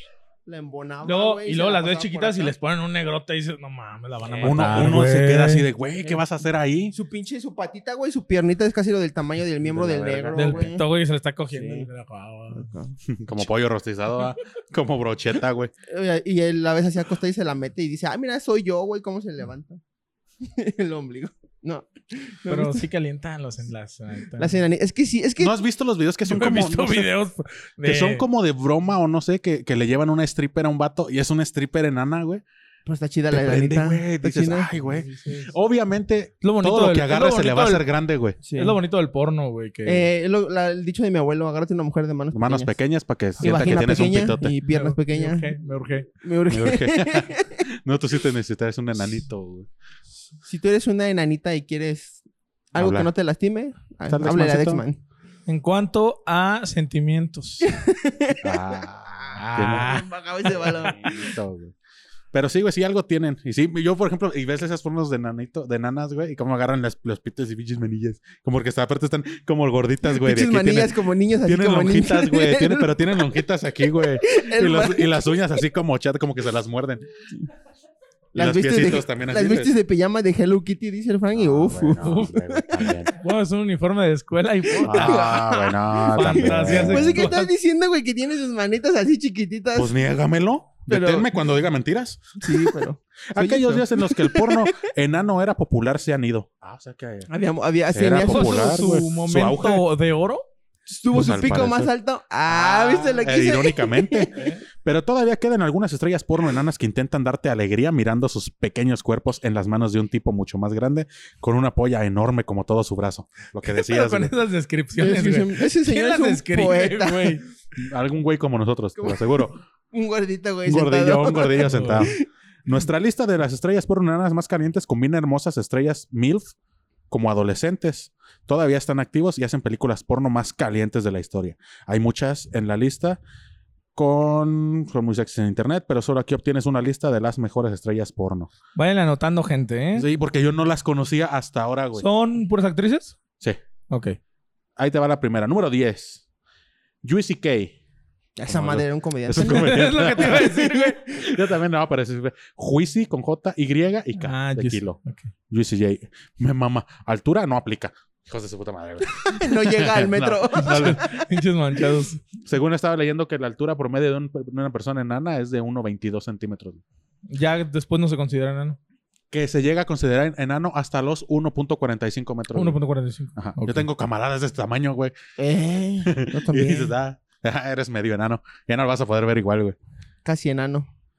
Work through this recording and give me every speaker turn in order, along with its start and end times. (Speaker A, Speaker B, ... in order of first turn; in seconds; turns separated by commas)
Speaker A: 0.5-2.5, Speaker B: 1.0-5.7, Speaker C: 4.4-7.0, Speaker A: 6.9-10.8, Speaker C: 9.6-10.7, Speaker B: 10.3-12.7, Speaker A: 11.5-11.9, Speaker A: 12.5-13.0, Speaker C: 13.1-15.7, Speaker A: 15.9-19.8, Speaker A: 20.4-22.9, Speaker B: 22.5-24.6, Speaker A: 24.4-25.6, Speaker C: 25.4-27.1, Speaker B: 26.2-28.2, Speaker C: 27.8-32.4, Speaker A: 32.9-34.7, Speaker C: 33.3-38.4, Speaker B: 34.8-35.5, Speaker B: 36.4-37.9, Speaker A: 38.4-38.8, Speaker B: 38.5-40.1, Speaker A: 39.9-42.7, Speaker C: 42.3-44.5, Speaker A: 43.4-45.5, Speaker B: 43.4-43.8, Speaker B: 44.7-46.1, Speaker A: 46.2-47.6, Speaker C: 46.5-49.7, Speaker A: 50.4-52.2, Speaker A: 52.7-55.0, Speaker C: 52.8-53.1, Speaker C: 54.1-54.8, Speaker B: 55.5-57.7, Speaker A: 57.6-58.8, Speaker C: 58.4-60.0, Speaker B: 59.4-60.1, Speaker A: 59.4-61.3, Speaker C: 60.6-61.8, Speaker C: 62.3-77.1, Speaker A: 70.0-73.1, Speaker A: 74.2-75.3, Speaker A: 78.3-83.0, Speaker C: 78.3-79.7, Speaker C: 81.3-83.1, Speaker B: 82.0-82.4, Speaker B: 83.1-85.4, Speaker A: 84.7-89.9, Speaker C: 84.8-87.3, Speaker B: 86.1-87.5, Speaker C: 89.8-92.4, Speaker B: 90.9-91.3, Speaker A: 92.4-94.8, Speaker C: 93.3-97.3, Speaker A: 97.3-98.9, Speaker C: 97.9-99.8, Speaker B: 98.2-100.4, Speaker A: 100.9-104.3, Speaker C: 101.1-101.9, Speaker B: 101.2-101.6, Speaker C: 102.5-114.3, Speaker B: 104.3-104.6, Speaker B: 113.7-117.4, Speaker A: 115.0-117.4, Speaker C: 117.8-119.6, Speaker A: 119.0-122.2, Speaker C: 120.7-126.5, Speaker B: 121.6-122.1, Speaker C: 127.1-133.2, Speaker C: 133.9-138.5, Speaker B: 138.8-140.1, Speaker C: 139.9-142.1, Speaker B: 142.0-143.2, Speaker B: 143.9-144.2, Speaker C: 144.8-146.2, Speaker C: 147.0-147.8, Speaker A: 148.4-151.0, Speaker C: 148.5-155.0, Speaker B: 149.4-151.1, Speaker B: 154.2-155.3, Speaker C: 155.5-161.1, Speaker A: 159.1-161.2, Speaker B: 160.6-162.2, Speaker C: 162.4-166.8, Speaker B: 167.3-168.8, Speaker C: 169.3-172.8, Speaker B: 172.5-173.9, Speaker C: 173.4-175.1, Speaker A: 175.4-176.9, Speaker C: 176.0-179.8, Speaker A: 180.2-180.9